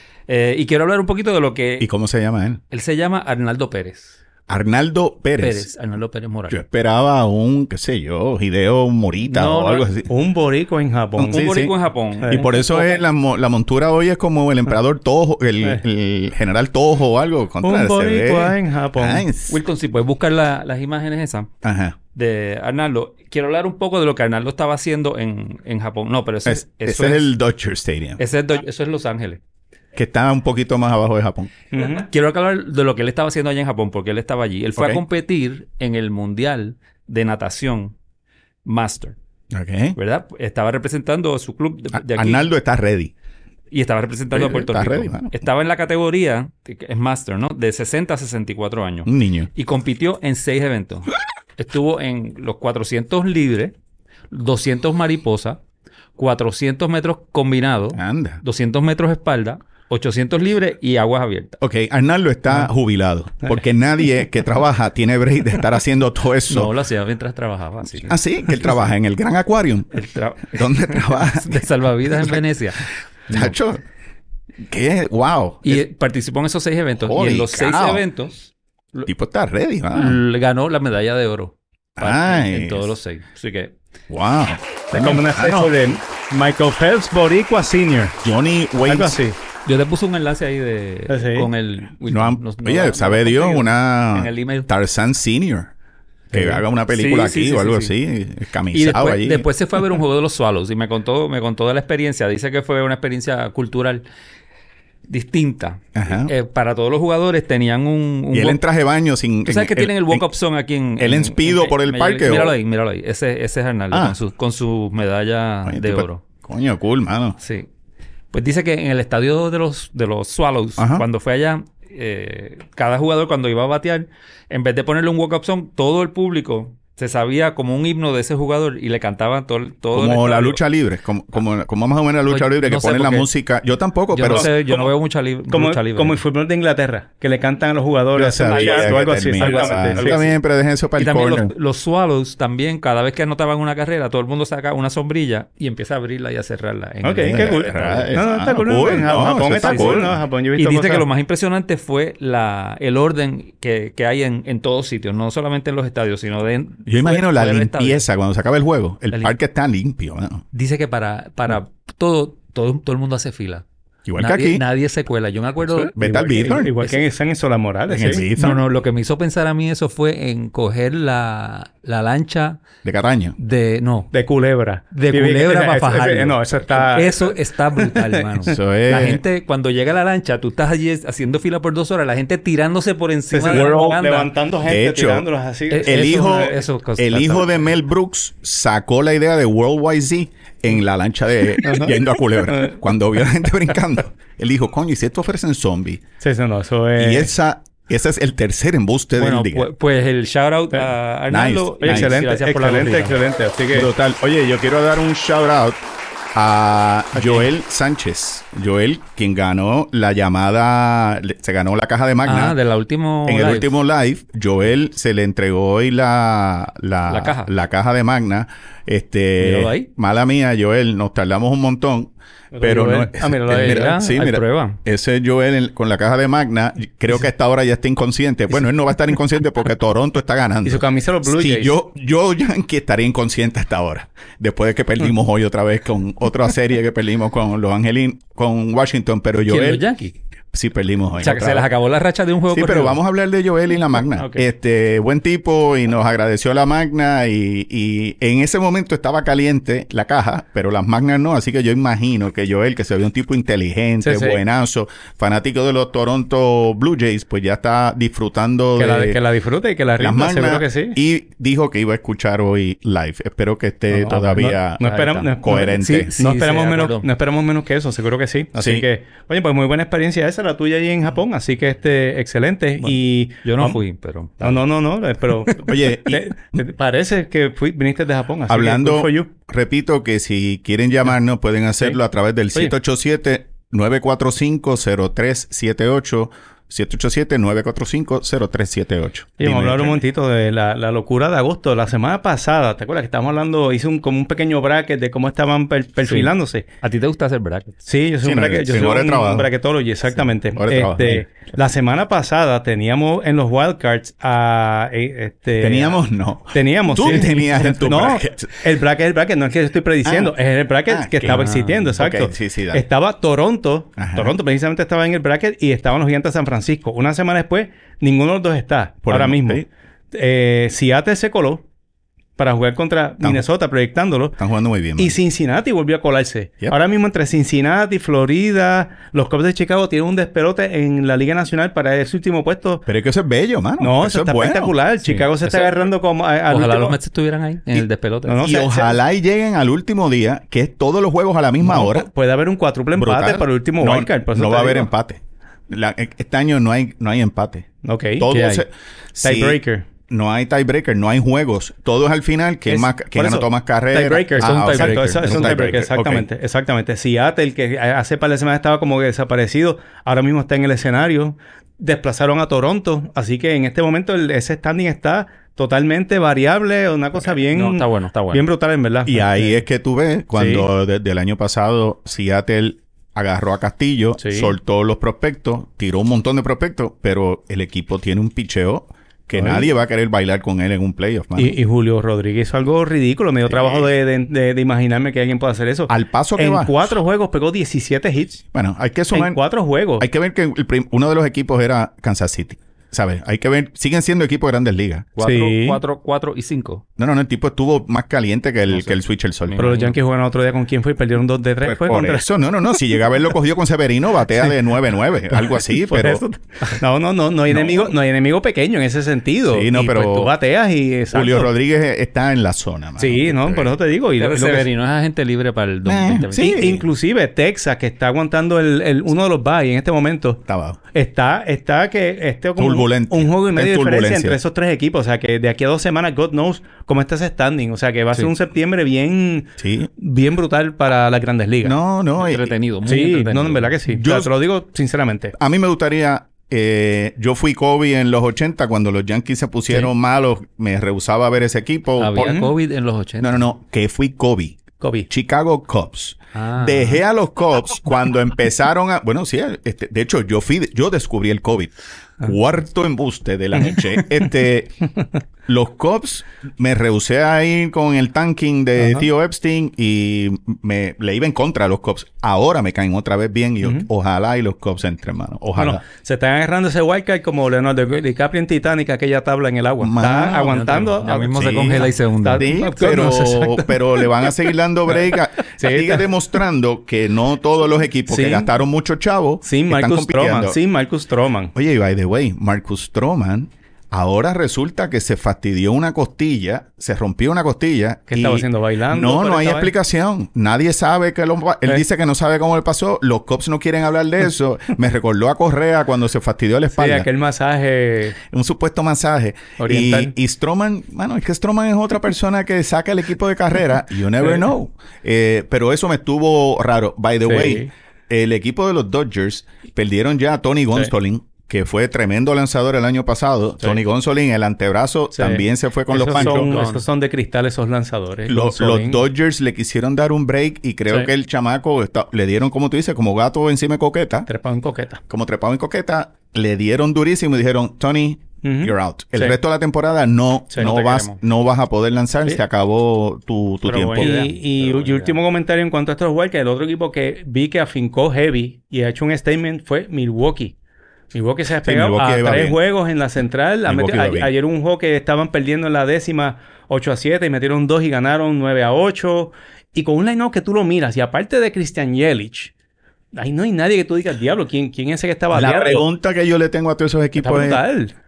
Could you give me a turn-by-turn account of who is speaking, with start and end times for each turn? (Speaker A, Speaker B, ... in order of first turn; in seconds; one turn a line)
Speaker A: 0.3-1.9
Speaker B: 1.8-2.6
Speaker A: 2.7-4.2
Speaker B: 4.5-5.7
Speaker A: 5.4-6.6
Speaker B: 6.5-10.1
Speaker A: 9.2-9.9
Speaker C: 10.1-11.4
Speaker B: 11.2-11.7
Speaker A: 11.3-13.0
Speaker B: 12.3-19.6
Speaker C: 17.6-19.2
Speaker A: 19.5-21.5
Speaker B: 21.6-21.9
Speaker A: 22.1-27.3
Speaker B: 26.4-28.2
Speaker A: 28.2-29.4
Speaker B: 29.9-31.5
Speaker C: 31.7-32.1
Speaker A: 31.8-37.9
Speaker B: 34.8-35.0
Speaker A: 38.6-39.1
Speaker B: 39.5-40.0
Speaker A: 39.9-42.5
Speaker B: 41.9-43.1
Speaker A: 43.7-53.7
Speaker B: 44.3-45.3
Speaker B: 49.0-49.5
Speaker A: 54.3-55.6
Speaker A: 56.2-61.6
Speaker B: 57.9-58.4
Speaker B: 61.6-66.7
Speaker A: 66.5-68.9
Speaker B: 68.0-69.9
Speaker A: 69.9-73.5
Speaker B: 70.5-72.4
Speaker B: 73.3-73.8
Speaker B: 74.7-75.8
Speaker A: 75.6-79.1
Speaker B: 77.0-78.0
Speaker B: 79.0-80.2
Speaker A: 79.9-83.7
Speaker B: 82.0-82.9
Speaker B: 84.1-85.7
Speaker C: 84.9-88.2
Speaker B: 88.2-89.2
Speaker C: 88.8-89.4
Speaker A: 89.6-94.7
Speaker C: 91.1-91.5
Speaker B: 92.1-95.7
Speaker B: 96.3-99.5
Speaker C: 96.3-96.6
Speaker A: 96.9-97.9
Speaker A: 98.7-104.0
Speaker A: 105.1-108.6
Speaker B: 106.0-106.3
Speaker B: 108.3-110.3
Speaker A: 109.4-116.2
Speaker B: 111.0-112.5
Speaker B: 113.9-114.2
Speaker B: 115.6-117.4
Speaker A: 117.4-117.7
Speaker A: 118.3-130.6
Speaker B: 120.8-121.0
Speaker B: 129.9-134.8
Speaker A: 132.2-133.3
Speaker A: 134.1-136.2
Speaker C: 134.2-134.5
Speaker C: 135.5-140.2
Speaker B: 138.1-141.5
Speaker A: 138.4-140.4
Speaker A: 141.0-148.2
Speaker C: 147.0-151.1
Speaker B: 147.2-150.2
Speaker A: 149.0-158.0
Speaker B: 156.9-160.4
Speaker A: 159.1-159.3
Speaker A: 160.5-163.6
Speaker B: 164.1-164.6
Speaker A: 164.2-167.0
Speaker C: 165.7-168.2
Speaker B: 165.9-166.7
Speaker B: 167.9-168.6
Speaker A: 168.0-172.6
Speaker B: 172.8-173.4
Speaker A: 173.4-174.1
Speaker C: 174.1-178.2
Speaker A: 174.9-184.3
Speaker B: 178.5-179.2
Speaker C: 183.3-186.3
Speaker B: 183.5-183.8
Speaker B: 184.6-185.3
Speaker A: 185.7-187.7
Speaker B: 185.8-196.0
Speaker C: 191.6-192.8
Speaker C: 196.2-197.3
Speaker B: 197.0-199.7
Speaker A: 199.2-203.2
Speaker B: 201.3-202.2
Speaker C: 201.8-203.9
Speaker B: 203.7-205.8
Speaker B: 206.3-212.6
Speaker C: 207.1-207.4
Speaker A: 212.2-213.7
Speaker B: 213.2-239.8
Speaker A: 217.1-217.5
Speaker A: 219.4-219.9
Speaker C: 222.5-224.1
Speaker A: 223.5-224.8
Speaker C: 230.6-231.8
Speaker A: 239.5-240.1
Speaker B: 240.5-241.7
Speaker A: 241.2-243.0
Speaker B: 242.5-259.2
Speaker C: 254.0-254.4
Speaker C: 258.8-261.0
Speaker B: 260.0-266.1
Speaker C: 263.9-273.8
Speaker A: 264.1-267.1
Speaker B: 268.6-268.9
Speaker A: 273.4-274.6
Speaker C: 274.4-279.3
Speaker B: 275.6-276.6
Speaker B: 278.5-290.0
Speaker C: 289.4-296.6
Speaker A: 296.0-297.7
Speaker C: 297.8-306.0
Speaker B: 298.2-299.5
Speaker B: 300.5-301.2
Speaker B: 305.6-308.5
Speaker C: 306.5-321.6
Speaker B: 310.0-310.3
Speaker B: 310.9-312.8
Speaker A: 311.3-311.9
Speaker B: 314.0-314.3
Speaker B: 319.0-319.7
Speaker C: 322.4-324.4
Speaker B: 324.4-325.2
Speaker C: 325.0-332.8
Speaker B: 332.9-334.8
Speaker C: 333.8-337.0
Speaker A: 335.2-335.9
Speaker A: 336.5-338.4
Speaker C: 338.2-339.0
Speaker B: 338.4-342.1
Speaker C: 341.6-344.9
Speaker B: 342.9-356.3
Speaker C: 347.8-348.6
Speaker C: 349.2-349.9
Speaker C: 352.7-369.6
Speaker A: 354.4-355.7
Speaker A: 367.2-368.4
Speaker B: 369.1-381.6
Speaker C: 370.3-370.6
Speaker C: 374.2-374.5
Speaker C: 379.3-379.7
Speaker C: 381.4-388.4
Speaker B: 385.9-386.9
Speaker B: 388.5-389.4
Speaker C: 389.1-390.1
Speaker B: 390.0-395.1
Speaker A: 395.1-396.8
Speaker C: 395.2-395.8
Speaker B: 397.0-399.7
Speaker A: 398.7-399.9
Speaker C: 399.6-402.3
Speaker B: 401.6-406.2
Speaker C: 405.3-411.5
Speaker B: 407.5-407.9
Speaker B: 409.5-410.3
Speaker B: 411.1-413.7
Speaker C: 413.0-414.7
Speaker A: 414.2-416.8
Speaker B: 415.8-416.8
Speaker C: 416.3-420.4
Speaker B: 420.5-420.8
Speaker C: 420.9-431.8
Speaker B: 422.6-424.4
Speaker B: 429.6-429.9
Speaker B: 431.6-432.5
Speaker A: 432.2-433.7
Speaker C: 432.9-435.3
Speaker B: 433.9-434.3
Speaker B: 435.4-442.4
Speaker A: 442.0-443.4
Speaker C: 442.2-442.5
Speaker B: 443.2-454.8
Speaker C: 444.8-445.1
Speaker A: 446.3-447.0
Speaker B: 455.4-465.8
Speaker C: 458.8-459.1
Speaker C: 465.6-474.4
Speaker B: 469.8-470.5
Speaker A: 470.3-472.5
Speaker B: 471.3-480.6
Speaker C: 475.4-476.1
Speaker C: 478.1-478.5
Speaker C: 479.4-481.5
Speaker B: 481.5-497.1
Speaker C: 488.1-489.7
Speaker C: 496.7-498.2
Speaker B: 498.3-516.6
Speaker C: 499.6-500.1
Speaker C: 507.2-507.7
Speaker C: 515.1-519.0
Speaker A: 516.1-516.8
Speaker B: 518.3-524.3
Speaker C: 524.3-525.0
Speaker B: 525.1-534.2
Speaker C: 528.4-529.4
Speaker A: 530.6-531.2
Speaker A: 533.6-535.1
Speaker C: 534.0-540.5
Speaker C: 541.1-552.5
Speaker B: 541.6-542.6
Speaker B: 543.6-544.3
Speaker C: 553.1-555.9
Speaker B: 555.3-557.6
Speaker C: 557.2-557.9